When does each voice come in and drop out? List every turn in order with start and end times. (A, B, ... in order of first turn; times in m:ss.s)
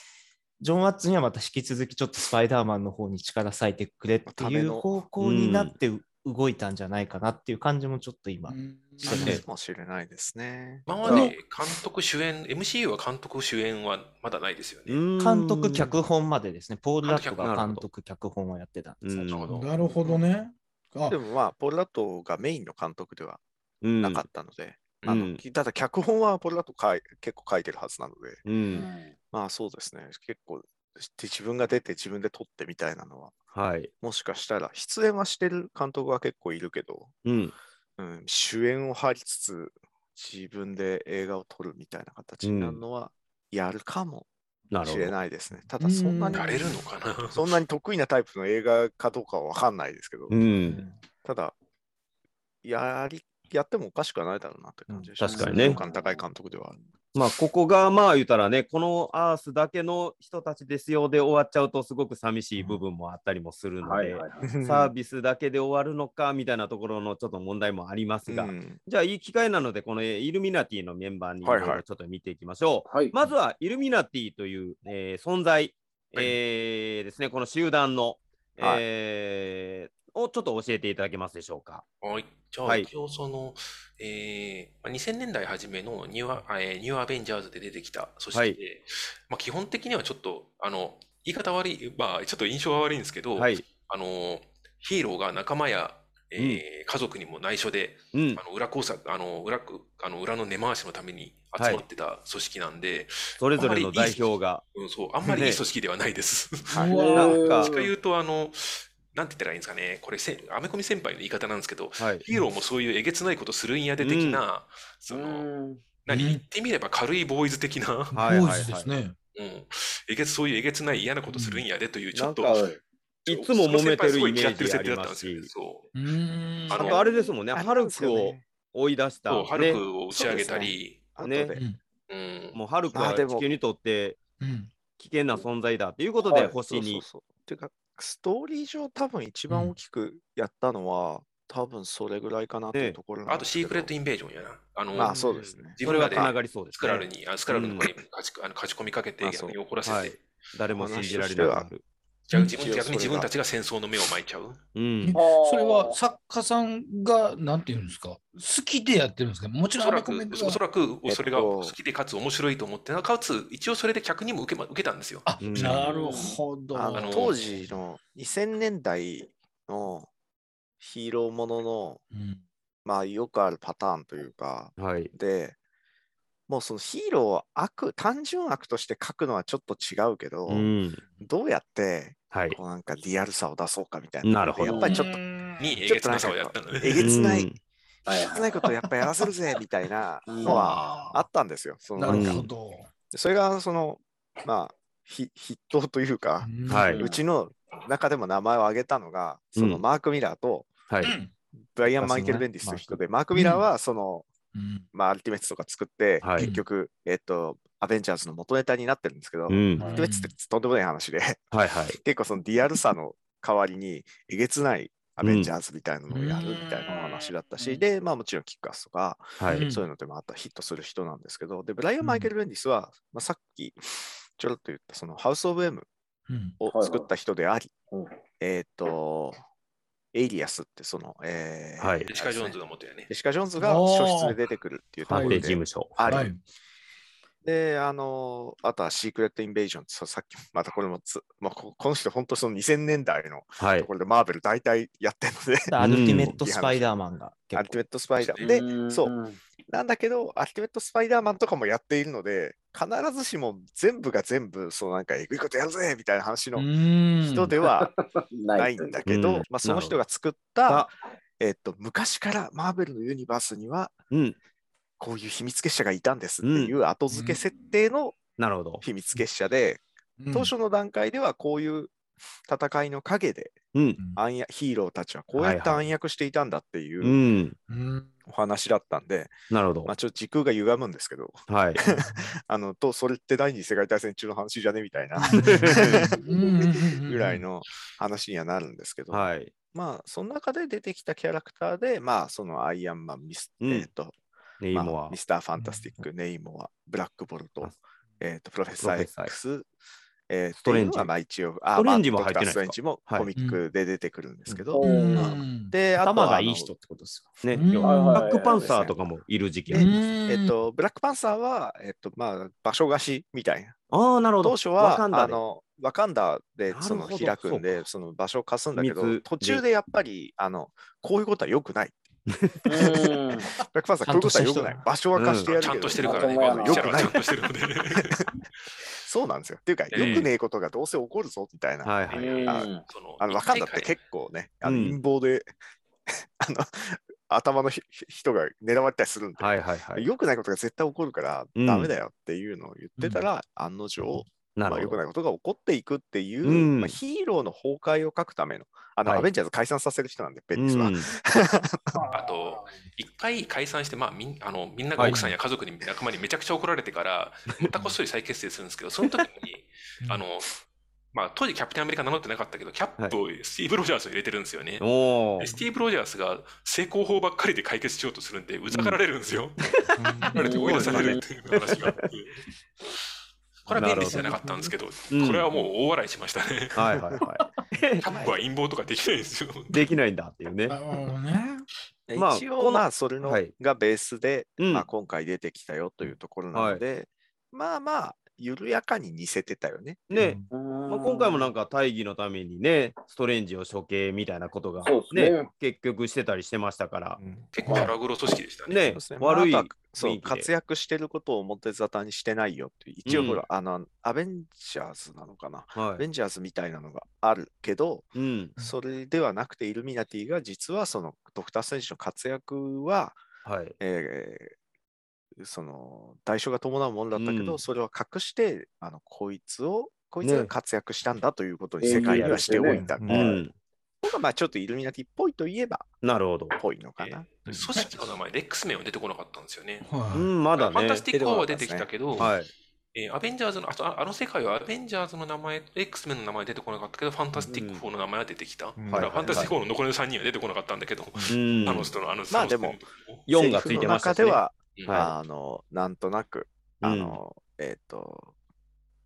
0:00.6-0:09.4 A
0:04.3-0:05.0 B
0:05.2-0:05.7 C
0:08.5-0:09.4 D
0:09.0-0:11.3 B
0:10.9-0:15.0 E
0:11.0-0:11.3 C
0:11.0-0:11.4 D
0:14.9-0:15.9 C
0:15.2-0:19.2 A
0:17.0-0:17.6 E
0:17.4-0:17.8 C
0:19.0-0:19.5 C
0:19.2-0:19.7 E
0:19.5-0:21.2 D
0:21.1-0:23.4 B
0:23.8-0:24.2 C
0:24.0-0:28.4 B
0:25.1-0:25.4 C
0:28.5-0:28.9 C
0:28.7-0:29.2 F
0:29.3-0:33.4 B
0:33.5-0:33.9 C
0:34.0-0:37.1 B
0:37.2-0:37.6 C
0:38.0-0:44.3 B
0:42.4-0:42.8 C
0:44.7-0:45.2 C
0:44.8-0:46.7 B
0:45.8-0:46.8 D
0:46.3-0:47.6 E
0:47.3-0:50.4 B
0:50.3-0:50.8 C
0:51.2-0:51.6 B
0:52.6-0:56.8 B
0:55.2-0:55.8 C
0:55.2-0:56.2 F
0:57.2-1:21.8 C
1:03.8-1:04.5 F
1:04.4-1:04.9 B
1:08.3-1:08.8 B
1:11.4-1:11.8 B
1:12.9-1:13.2 F
1:22.0-1:55.5 E
1:28.3-1:28.6 C
1:33.4-1:33.6 C
1:38.1-1:38.4 C
1:41.6-1:41.8 C
1:43.4-1:44.6 C
1:45.3-1:45.6 C
1:46.8-1:47.4 D
1:46.8-1:47.9 F
1:47.1-1:47.7 C
1:52.0-1:52.2 C
1:54.0-1:54.4 C
1:55.1-1:55.8 F
1:56.0-1:58.2 E
1:56.1-1:56.4 D
1:58.1-1:59.2 D
1:58.1-1:58.9 C
1:59.4-2:02.6 E
2:01.3-2:01.6 D
2:02.1-2:02.7 C
2:02.5-2:02.8 F
2:03.2-2:05.9 E
2:03.3-2:05.5 C
2:06.0-2:06.9 D
2:06.7-2:07.0 E
2:06.7-2:09.9 C
2:06.8-2:08.4 B
2:09.3-2:11.0 E
2:10.1-2:11.6 B
2:11.2-2:11.6 C
2:12.1-2:12.6 E
2:12.5-2:14.2 C
2:12.9-2:13.5 B
2:14.4-2:14.7 D
2:15.0-2:17.0 C
2:16.4-2:23.9 B
2:19.5-2:19.8 D
2:22.7-2:23.0 C
2:23.3-2:25.2 E
2:25.0-2:26.3 B
2:25.3-2:27.9 C
2:25.8-2:30.2 E
2:29.2-2:29.6 B
2:29.8-2:31.8 C
2:30.7-2:31.7 B
2:32.3-2:34.6 E
2:32.5-2:33.3 B
2:34.8-2:35.2 C
2:35.0-2:40.6 D
2:35.1-2:36.0 F
2:39.8-2:45.3 E
2:41.1-2:41.8 B
2:45.3-2:47.4 D
2:45.4-2:45.9 C
2:45.8-2:46.4 F
2:46.7-2:50.1 B
2:46.9-2:47.4 E
2:50.8-2:52.0 B
2:52.1-2:52.4 D
2:52.8-2:55.6 B
2:54.8-2:55.1 C
2:56.5-3:00.7 B
3:00.5-3:01.0 C
3:01.2-3:05.2 B
3:02.3-3:02.6 C
3:04.2-3:04.8 C
3:04.6-3:05.0 F
3:04.8-3:05.7 D
3:05.6-3:07.1 E
3:05.8-3:07.5 B
3:07.0-3:07.6 C
3:08.1-3:08.5 F
3:08.2-3:12.5 B
3:10.3-3:10.7 F
3:10.4-3:11.2 D
3:12.0-3:12.9 D
3:12.1-3:12.5 C
3:13.1-3:20.7 B
3:16.4-3:17.0 D
3:16.7-3:17.0 C
3:16.9-3:17.2 F
3:19.6-3:19.8 C
3:20.9-3:21.2 C
3:21.0-3:21.3 D
3:21.8-3:24.3 B
3:22.0-3:23.0 A
3:23.3-3:23.6 D
3:24.5-3:24.9 D
3:24.9-3:45.9 B
3:26.2-3:26.5 C
3:29.5-3:29.9 C
3:29.8-3:30.1 F
3:29.8-3:30.3 D
3:31.5-3:32.0 C
3:35.2-3:35.5 C
3:36.1-3:37.8 D
3:39.4-3:39.6 C
3:39.5-3:39.9 D
3:42.0-3:42.3 D
3:46.3-3:46.6 D
3:46.6-3:47.7 B
3:46.7-3:47.1 F
3:48.4-3:49.4 B
3:50.1-3:52.6 B
3:51.8-3:52.1 C
3:52.1-3:53.1 E
3:53.1-3:56.3 B
3:53.6-3:54.4 D
3:55.1-3:56.2 C
3:55.1-3:55.5 D
3:56.1-3:56.4 D
3:57.4-4:06.9 B
4:03.6-4:03.9 C
4:05.7-4:07.8 A
4:05.8-4:06.4 C
4:07.5-4:09.1 B
4:08.2-4:08.6 E
4:08.4-4:09.4 F
4:09.7-4:16.7 B
4:16.6-4:17.6 D
4:17.2-4:17.9 B
4:17.6-4:19.0 F
4:18.5-4:23.9 B
4:19.1-4:20.0 C
4:20.7-4:20.9 C
4:24.1-4:24.4 C
4:25.0-4:28.2 B
4:26.4-4:26.8 C
4:27.1-4:27.4 D
4:28.4-4:28.8 C
4:28.8-4:31.9 B
4:30.2-4:30.5 D
4:32.5-4:33.6 B
4:33.7-4:34.0 C
4:34.2-4:37.2 B
4:35.3-4:35.9 C
4:37.0-4:37.6 C
4:37.7-4:38.1 D
4:38.3-4:39.3 B
4:39.5-4:39.9 C
4:39.8-4:54.2 B
4:41.5-4:41.8 C
4:41.9-4:42.4 D
4:45.2-4:47.4 D
4:45.3-4:46.1 C
4:49.1-4:49.5 C
4:53.6-4:53.9 C
4:54.6-4:55.2 C
4:54.7-4:59.7 B
4:55.6-4:56.0 D
4:58.8-4:59.3 C
5:00.3-5:06.7 B
5:00.6-5:01.1 C
5:01.8-5:03.3 C
5:03.4-5:03.6 D
5:04.7-5:05.4 F
5:04.8-5:05.8 D
5:06.0-5:07.4 A
5:07.4-5:09.9 C
5:07.5-5:08.2 D
5:07.8-5:08.8 F
5:08.4-5:09.0 B
5:09.7-5:10.5 D
5:10.3-5:13.8 B
5:13.9-5:15.4 C
5:14.4-5:22.0 B
5:16.7-5:17.9 C
5:18.8-5:19.6 C
5:22.3-5:22.9 C
5:22.7-5:23.5 F
5:23.6-5:27.3 B
5:24.0-5:24.8 A
5:25.2-5:25.5 C
5:25.4-5:28.2 E
5:26.0-5:27.1 F
5:27.9-5:28.3 B
5:29.0-5:35.5 B
5:29.9-5:30.3 E
5:31.8-5:32.4 C
5:32.1-5:34.0 E
5:32.1-5:32.8 F
5:34.6-5:35.0 C
5:36.1-5:52.0 B
5:39.4-5:40.1 C
5:41.6-5:41.9 C
5:43.0-5:43.2 D
5:44.6-5:45.0 C
5:46.4-5:47.0 C
5:50.6-5:51.1 C
5:52.0-5:52.3 D
5:52.1-6:00.6 E
5:55.0-5:55.4 D
6:01.1-6:04.8 E
6:04.8-6:05.5 C
6:05.4-6:09.6 E
6:08.7-6:09.0 C
6:09.6-6:10.0 C
6:10.2-6:10.6 D
6:10.3-6:12.4 E
6:10.4-6:11.2 F
6:10.6-6:12.1 C
6:13.7-6:16.8 E
6:13.7-6:14.3 C
6:14.1-6:14.7 D
6:15.1-6:15.5 C
6:16.8-6:18.0 C
6:17.2-6:17.5 D
6:18.0-6:19.9 E
6:18.1-6:18.4 B
6:19.7-6:20.8 C
6:20.7-6:21.6 D
6:22.1-6:30.4 B
6:22.2-6:23.5 C
6:24.6-6:24.9 C
6:26.5-6:26.8 C
6:30.1-6:37.2 C
6:30.5-6:31.5 F
6:34.8-6:35.5 F
6:37.5-6:39.0 E
6:37.6-6:37.9 F
6:38.7-6:40.5 C
6:38.9-6:53.2 B
6:43.0-6:43.4 C
6:45.8-6:46.0 C
6:48.2-6:48.6 C
6:53.4-6:53.8 C
6:53.8-6:54.6 B
6:55.4-7:03.4 B
6:57.2-6:57.6 C
7:00.2-7:00.5 C
7:01.8-7:02.9 F
7:01.8-7:03.5 C
7:02.8-7:03.3 A
7:04.0-7:05.9 B
7:06.0-7:06.6 C
7:06.5-7:07.7 B
7:07.0-7:09.9 E
7:07.7-7:08.0 D
7:09.8-7:10.3 D
7:10.1-7:11.0 C
7:10.5-7:12.3 E
7:11.1-7:12.3 B
7:12.2-7:12.5 C
7:12.9-7:23.2 E
7:17.5-7:17.8 C
7:18.8-7:19.5 B
7:18.9-7:19.6 C
7:21.3-7:21.9 C
7:22.3-7:28.3 B
7:23.3-7:25.1 C
7:24.8-7:25.0 E
7:26.8-7:27.2 C